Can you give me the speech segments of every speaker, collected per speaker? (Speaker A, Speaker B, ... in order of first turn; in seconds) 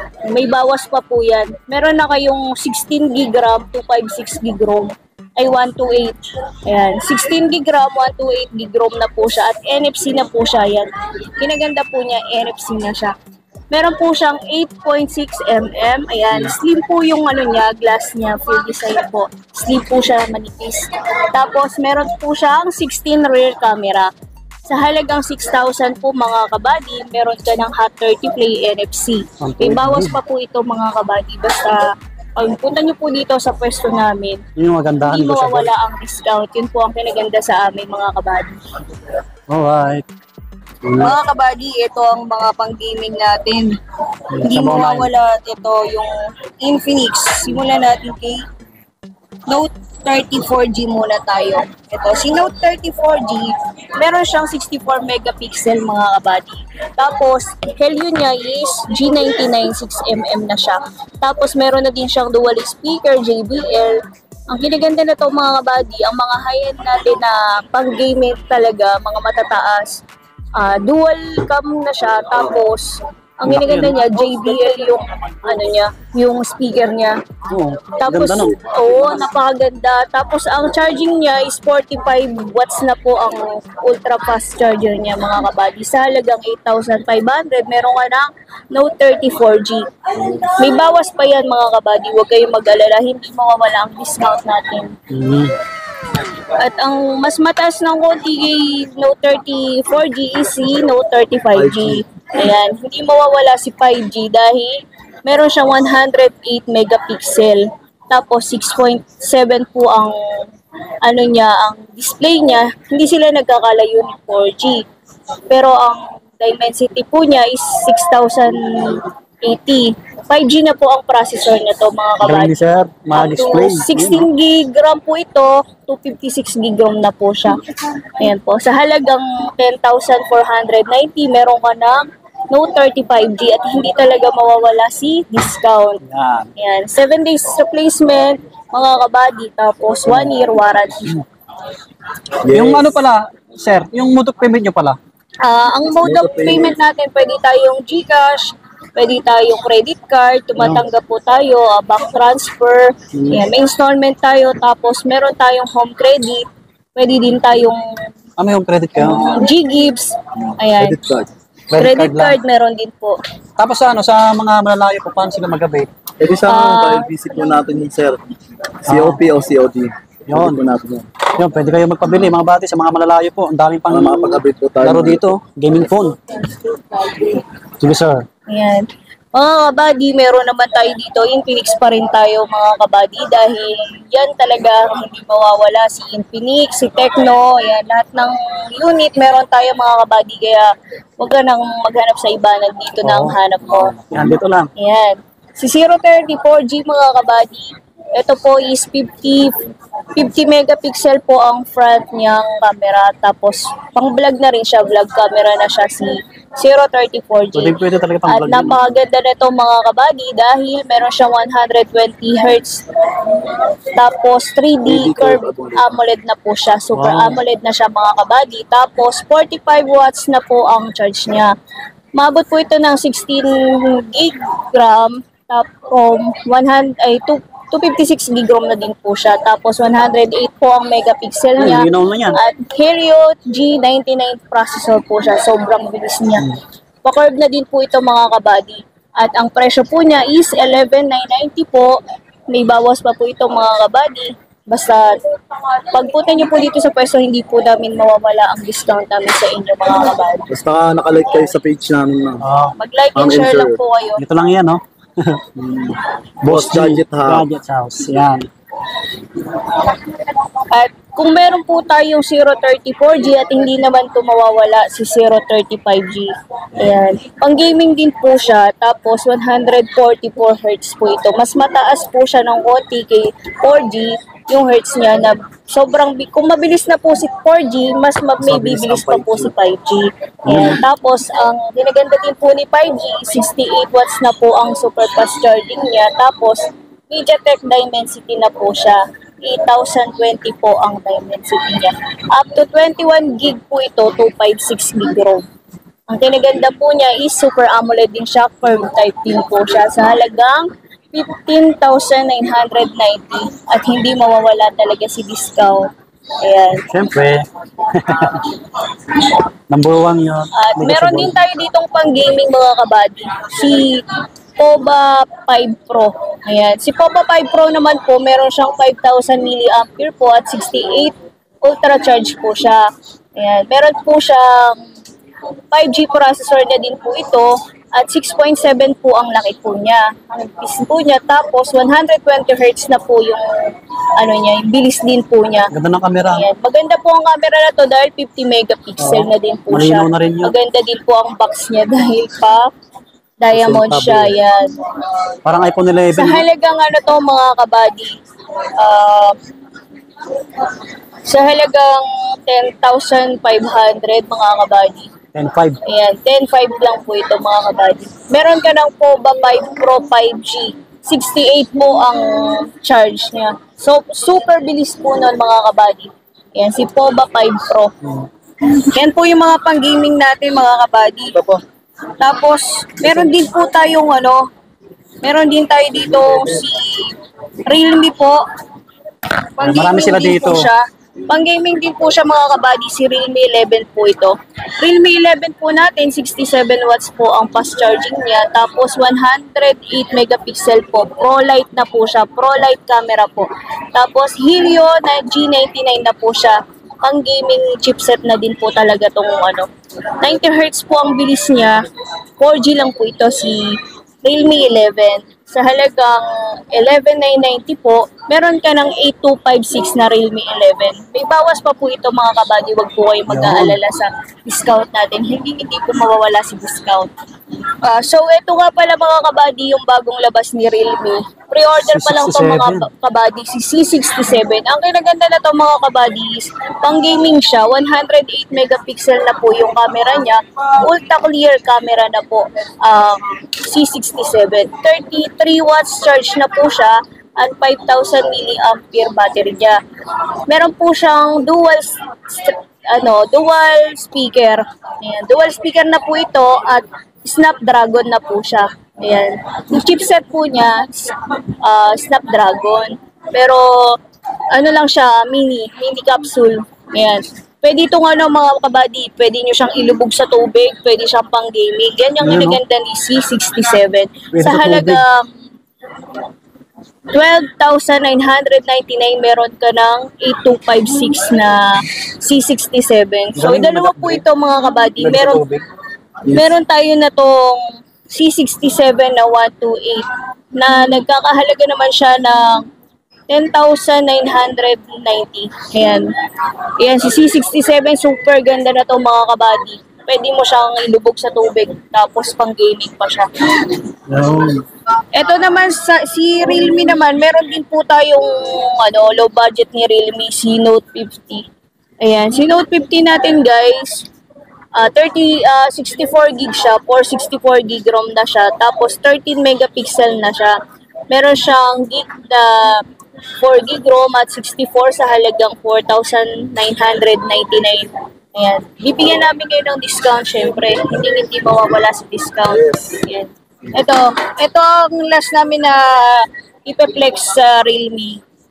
Speaker A: 0.2-13.1, 13.7-24.1, 24.6-31.8, 32.4-34.4, 35.0-38.6, 41.0-43.7, 44.4-48.4, 49.5-70.0, 70.5-77.2, 78.0-94.9, 96.2-110.2, 111.0-114.8, 115.5-122.5, 123.1-127.6, 128.2-132.0, 132.5-136.0, 136.6-141.2, 145.4-157.8, 159.0-161.0, 161.7-163.2, 166.4-167.1, 176.4-177.4, 178.5-194.0, 194.8-199.5, 200.1-221.5, 222.1-236.5, 237.0-242.0, 242.5-250.5, 252.8-254.2, 259.3-295.4, 296.1-305.9, 306.4-306.9, 310.6-314.1, 314.6-322.8, 323.4-324.8, 325.7-335.7, 336.2-342.7, 343.4-344.8, 346.1-348.1, 348.8-349.4, 350.3-355.1, 355.9-367.9, 368.6-371.4, 372.2-374.4, 375.2-378.4, 379.4-399.7, 400.2-401.8, 402.4-417.1, 417.8-439.8, 440.5-454.0, 454.5-465.3, 467.1-475.4, 476.3-482.6, 483.3-486.1, 486.8-493.8, 495.1-501.4, 502.0-504.1, 504.7-510.6, 511.1-512.8, 513.4-528.2
Speaker B: 29.4-30.1, 34.6-35.7, 39.5-40.0, 40.8-41.1, 44.3-45.1, 73.5-74.5, 77.5-78.6, 95.1-95.6, 122.2-124.3, 136.0-136.5, 142.5-145.0, 150.6-150.8, 153.1-153.4, 158.4-159.4, 161.7-162.4, 163.6-165.9, 168.9-169.2, 170.3-170.6, 171.4-176.2, 177.8-178.2, 193.0-193.3, 194.1-194.7, 207.5-208.8, 216.9-217.4, 231.6-232.4, 252.4-252.8, 254.2-255.6, 256.4-258.5, 280.5-280.8, 306.9-308.6, 309.7-311.3, 335.7-336.4, 339.0-340.5, 345.4-346.4, 355.3-355.8, 379.6-380.7, 413.3-413.8, 421.8-422.9, 462.2-462.6, 464.3-465.0, 473.4-474.2, 475.0-475.6, 494.1-494.6
Speaker C: 101.5-102.0, 142.4-142.9, 146.0-146.8, 160.8-161.3, 166.2-168.2, 168.8-171.1, 173.9-175.3, 193.7-194.3, 214.8-216.0, 250.5-252.4, 253.2-253.8, 255.6-257.4, 278.4-279.5, 343.5-344.3